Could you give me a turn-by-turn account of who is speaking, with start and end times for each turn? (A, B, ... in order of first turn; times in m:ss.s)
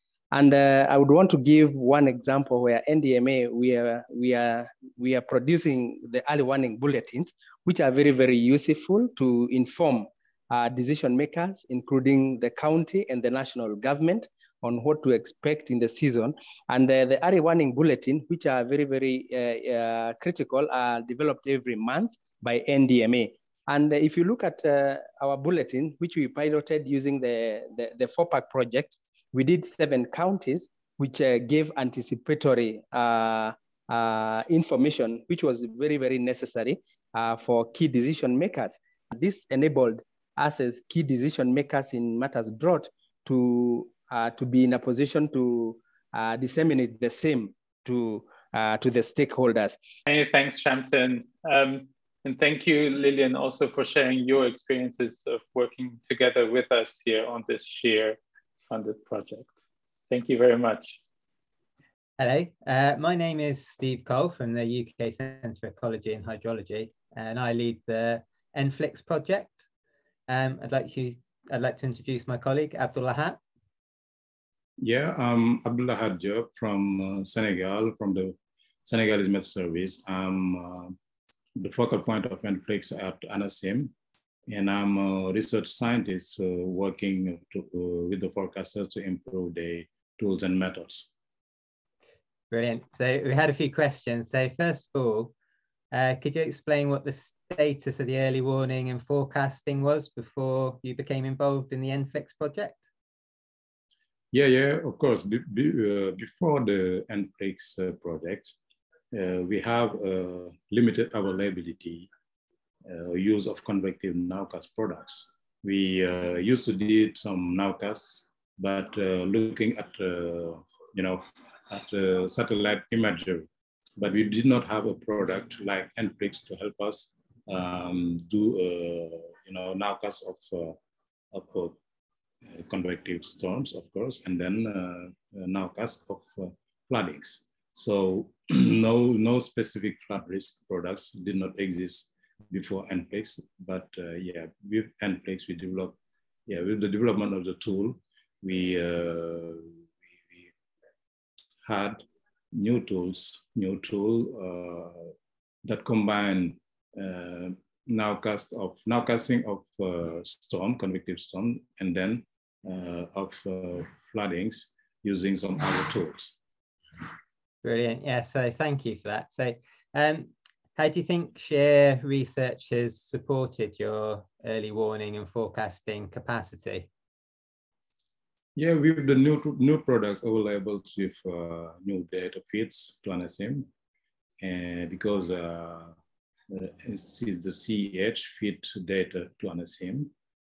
0:00.3-0:49.8 A
0:50.1-0:59.5 B
1:00.1-1:01.0 B
1:02.2-1:09.6 C
1:10.3-1:13.4 C
1:14.8-1:21.0 D
1:21.6-1:23.9 D
1:24.5-1:31.1 D
1:32.5-1:35.3 C
1:35.9-1:42.8 C
1:44.3-1:48.6 D
1:49.1-1:52.1 D
1:52.8-2:03.5 D
2:04.0-2:10.8 D
2:11.3-2:11.8 D
2:12.4-2:26.0 D
2:26.5-2:30.5 D
2:31.6-2:35.1 D
2:35.6-2:46.4 D
2:47.6-2:56.9 C
2:58.6-3:03.7 D
3:04.4-3:05.9 D
3:06.5-3:10.1 D